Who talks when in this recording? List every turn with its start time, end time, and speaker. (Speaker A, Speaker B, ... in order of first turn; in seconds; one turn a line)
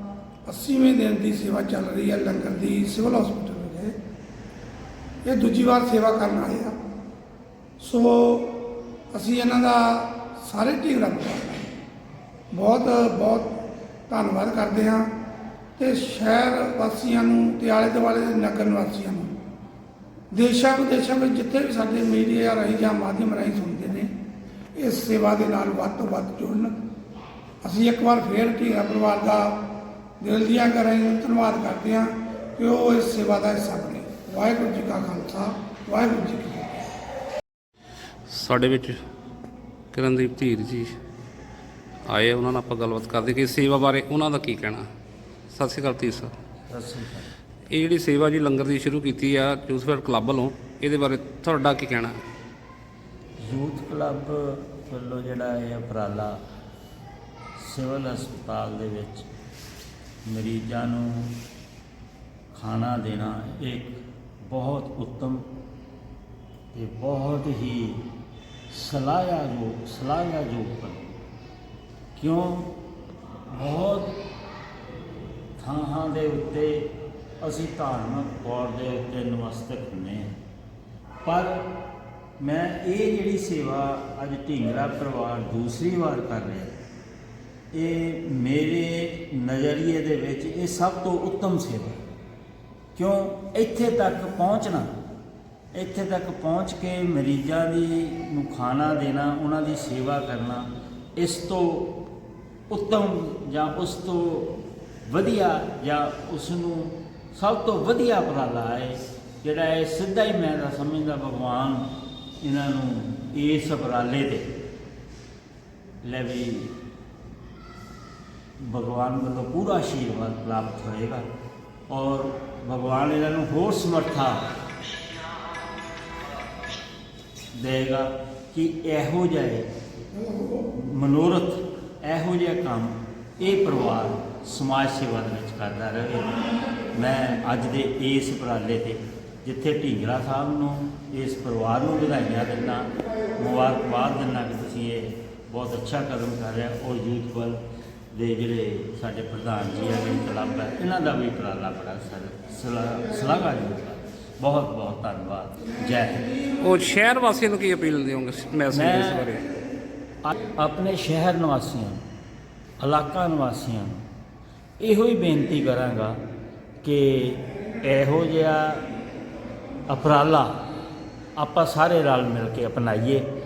Speaker A: 0.5-3.9
Speaker A: 5.2-6.8
Speaker A: 7.8-11.7
Speaker A: 12.5-13.5
Speaker A: 14.1-15.1
Speaker A: 15.8-19.4
Speaker A: 20.3-24.1
Speaker A: 24.7-26.8
Speaker A: 27.6-29.6
Speaker A: 30.2-36.8
Speaker B: 38.3-39.0
Speaker B: 39.9-40.9
Speaker B: 42.1-44.8
Speaker B: 45.5-46.3
Speaker C: 46.7-47.3
Speaker B: 47.7-52.1
Speaker C: 53.4-56.4
Speaker C: 57.6-59.3
Speaker C: 60.2-61.4
Speaker C: 62.5-65.4
Speaker C: 66.7-68.1
Speaker C: 68.7-71.2
Speaker C: 72.2-72.8
Speaker C: 73.5-74.2
Speaker C: 75.6-80.4
Speaker C: 81.2-81.7
Speaker C: 82.4-86.8
Speaker C: 87.7-92.0
Speaker C: 93.0-94.9
Speaker C: 95.7-102.0
Speaker C: 102.7-114.5
Speaker C: 116.0-116.8
Speaker C: 118.6-121.2
Speaker C: 121.9-124.5
Speaker C: 127.5-129.7
Speaker A: 130.2-130.6
Speaker C: 130.7-136.4
Speaker C: 136.9-147.6
Speaker C: 148.1-156.3
Speaker B: 156.6-159.4
Speaker C: 158.7-159.3
Speaker C: 160.2-162.0
Speaker C: 162.8-164.0
Speaker C: 164.8-166.2
Speaker C: 166.8-168.8
Speaker C: 169.9-170.6
Speaker C: 171.3-173.3